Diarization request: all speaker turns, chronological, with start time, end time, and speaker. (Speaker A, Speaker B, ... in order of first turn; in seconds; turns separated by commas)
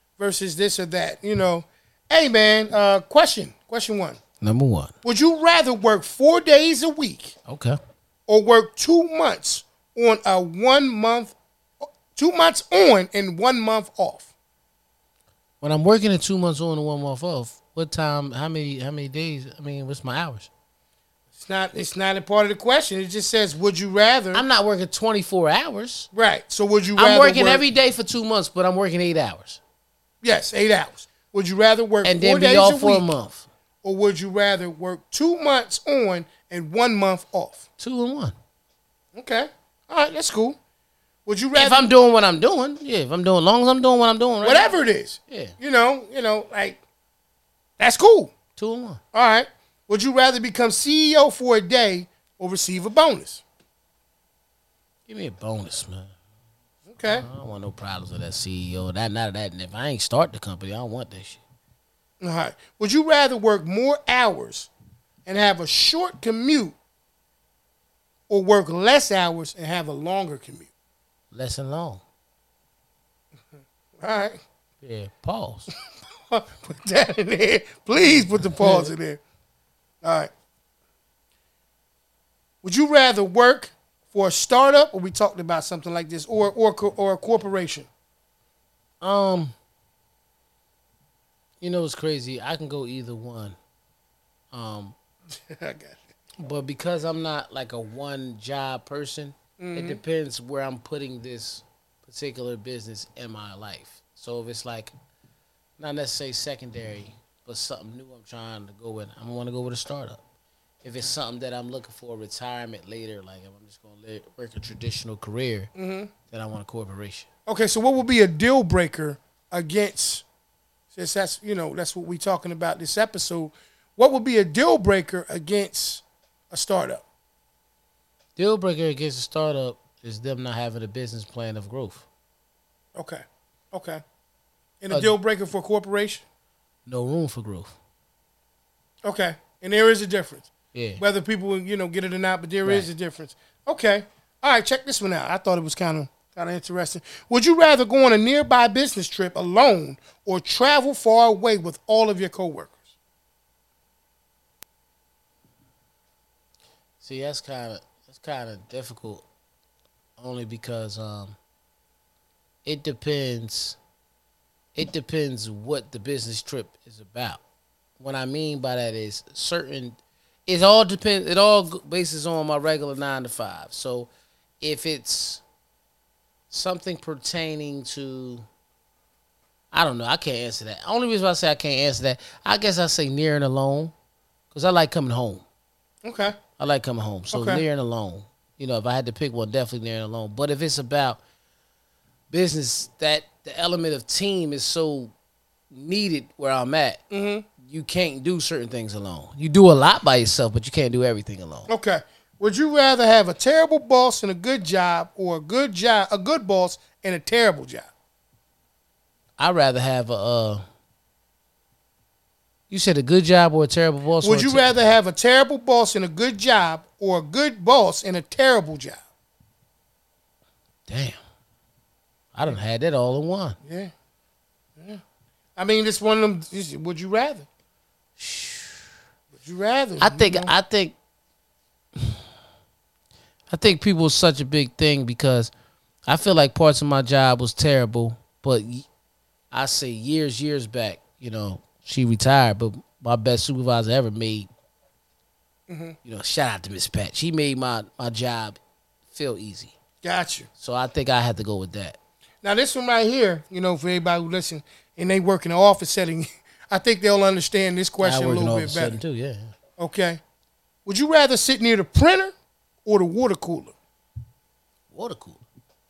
Speaker A: 0.2-4.2, Speaker B: 4.4-4.9, Speaker A: 5.0-7.3, Speaker B: 7.5-7.8, Speaker A: 8.3-14.3, Speaker B: 15.6-20.5, Speaker A: 21.4-24.4, Speaker B: 24.3-26.1, Speaker A: 26.1-27.6, Speaker B: 27.0-29.6, Speaker A: 30.2-33.1, Speaker B: 32.0-33.5, Speaker A: 33.8-37.6, Speaker B: 37.8-38.3, Speaker A: 39.1-40.6, Speaker A: 41.2-41.9, Speaker B: 41.5-44.7, Speaker A: 44.4-46.8, Speaker B: 45.3-45.5, Speaker A: 47.8-48.3, Speaker B: 48.5-49.0, Speaker A: 49.1-53.4, Speaker B: 55.1-56.1, Speaker A: 56.9-57.3, Speaker B: 57.0-61.4, Speaker A: 62.2-64.7, Speaker A: 65.2-66.7, Speaker A: 68.3-70.7, Speaker B: 71.3-72.0, Speaker A: 74.0-74.3, Speaker B: 74.8-75.7, Speaker A: 76.3-79.2, Speaker B: 78.6-78.9, Speaker A: 80.0-80.3, Speaker A: 82.6-87.9, Speaker B: 89.0-89.5, Speaker B: 91.6-93.6, Speaker B: 94.5-95.0, Speaker A: 95.3-96.0, Speaker B: 96.4-104.9, Speaker A: 99.6-100.0, Speaker B: 105.8-110.2, Speaker B: 110.8-115.7, Speaker A: 115.7-116.1, Speaker B: 116.3-117.3, Speaker A: 117.5-120.2, Speaker A: 120.9-127.0, Speaker B: 128.4-132.1, Speaker A: 132.9-134.0, Speaker A: 134.8-136.2, Speaker B: 136.9-137.7, Speaker A: 139.0-152.8, Speaker B: 140.7-141.0, Speaker B: 157.0-159.2, Speaker B: 160.2-161.3, Speaker B: 162.6-163.8, Speaker B: 164.7-167.4, Speaker B: 168.0-174.1, Speaker B: 174.6-175.4, Speaker B: 176.5-178.4, Speaker B: 179.7-183.9, Speaker B: 184.5-185.4, Speaker A: 186.0-186.4, Speaker B: 186.6-191.2, Speaker A: 187.3-187.6, Speaker B: 192.3-195.1, Speaker B: 195.7-197.0, Speaker A: 197.1-197.4, Speaker B: 197.6-201.7, Speaker A: 201.7-207.9, Speaker B: 209.4-210.6, Speaker B: 212.7-214.7, Speaker A: 214.2-219.0, Speaker B: 220.9-221.2, Speaker B: 222.3-223.6, Speaker A: 223.6-223.9, Speaker A: 225.6-227.5, Speaker B: 228.2-228.8, Speaker A: 229.3-230.5, Speaker B: 230.0-230.9, Speaker B: 233.5-235.5, Speaker B: 236.1-238.9, Speaker B: 239.5-244.5, Speaker A: 245.7-245.9, Speaker B: 246.0-248.6, Speaker B: 249.1-249.7, Speaker A: 250.0-250.5, Speaker B: 250.6-252.0, Speaker A: 252.4-259.0, Speaker B: 258.0-259.5, Speaker A: 259.8-260.2, Speaker A: 260.9-262.3, Speaker A: 262.8-263.7, Speaker B: 264.9-265.4